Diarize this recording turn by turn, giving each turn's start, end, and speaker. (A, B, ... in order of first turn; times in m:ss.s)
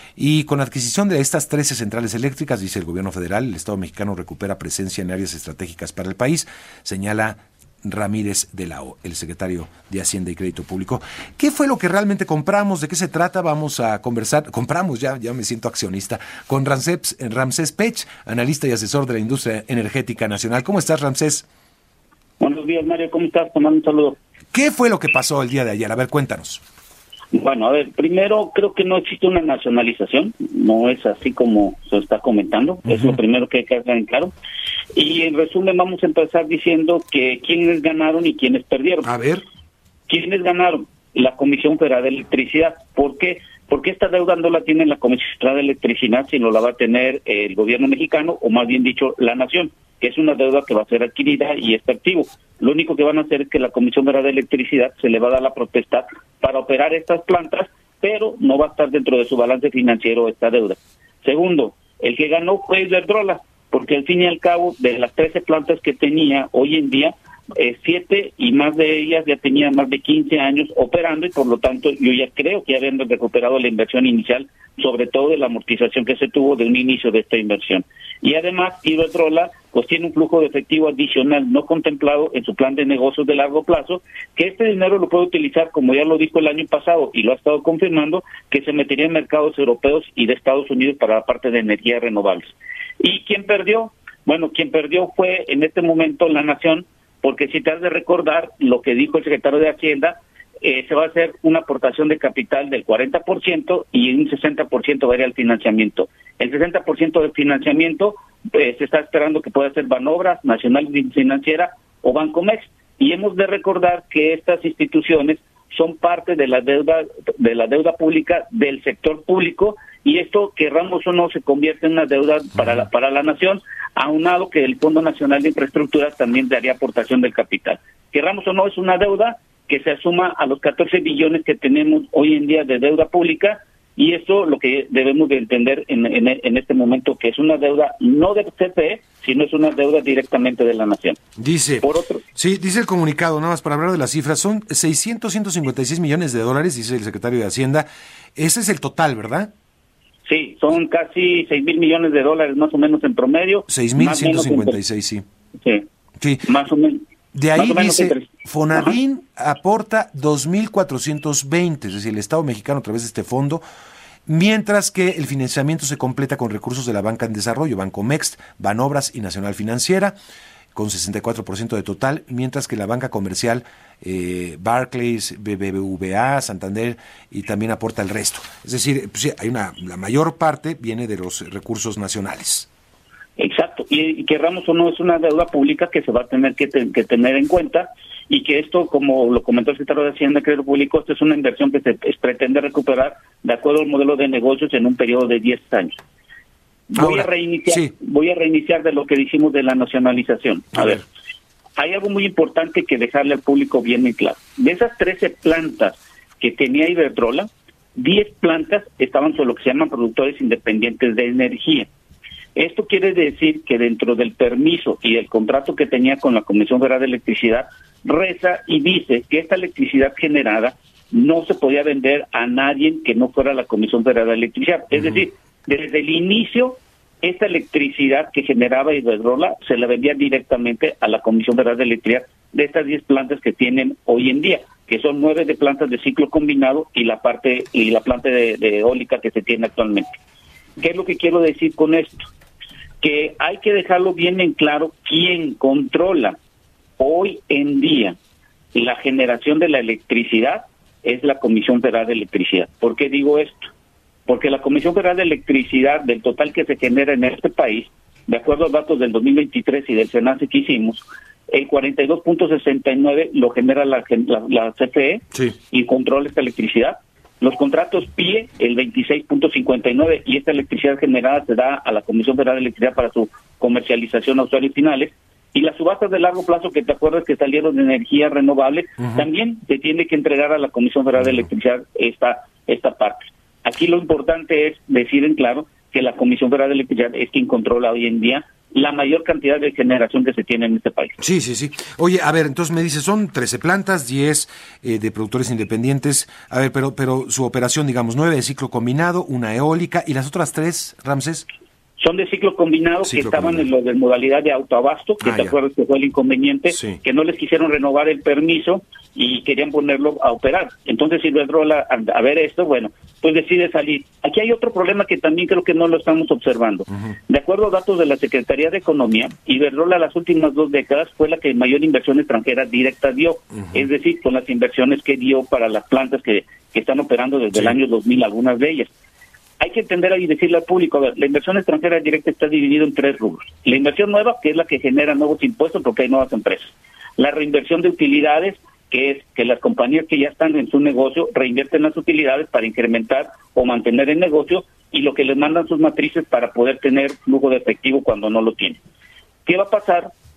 0:00.2-0:21.5 A
0:22.4-0:24.2 B
0:24.5-0:26.6 A
0:27.3-0:34.3 B
0:32.9-0:33.2 A
0:35.0-0:39.1 B
0:39.0-0:39.4 A
0:40.1-2:21.2 B
2:21.4-2:29.5 A
2:21.8-2:22.2 B
2:30.3-2:34.8 B
2:33.7-2:35.2 A
2:35.6-2:35.9 B
2:36.2-2:36.5 A
2:36.5-2:37.0 B
2:37.3-2:43.6 A
2:37.6-2:39.0 B
2:44.3-2:50.2 A
2:50.8-3:02.7 A
3:03.4-3:16.0 B
3:16.9-3:21.0 B
3:17.0-3:17.9 A
3:20.8-3:21.0 A
3:21.8-3:31.9 B
3:32.6-4:00.1 B
4:00.8-4:02.2 B
4:03.0-4:06.4 B
4:07.0-4:08.2 B
4:08.7-4:13.7 B
4:14.3-4:51.2 B
4:51.2-5:01.5 A
5:02.0-5:28.9 B
5:03.1-5:03.7 A
5:05.2-5:05.5 A
5:06.7-5:07.0 A
5:29.6-5:48.8 B
5:49.5-5:50.1 B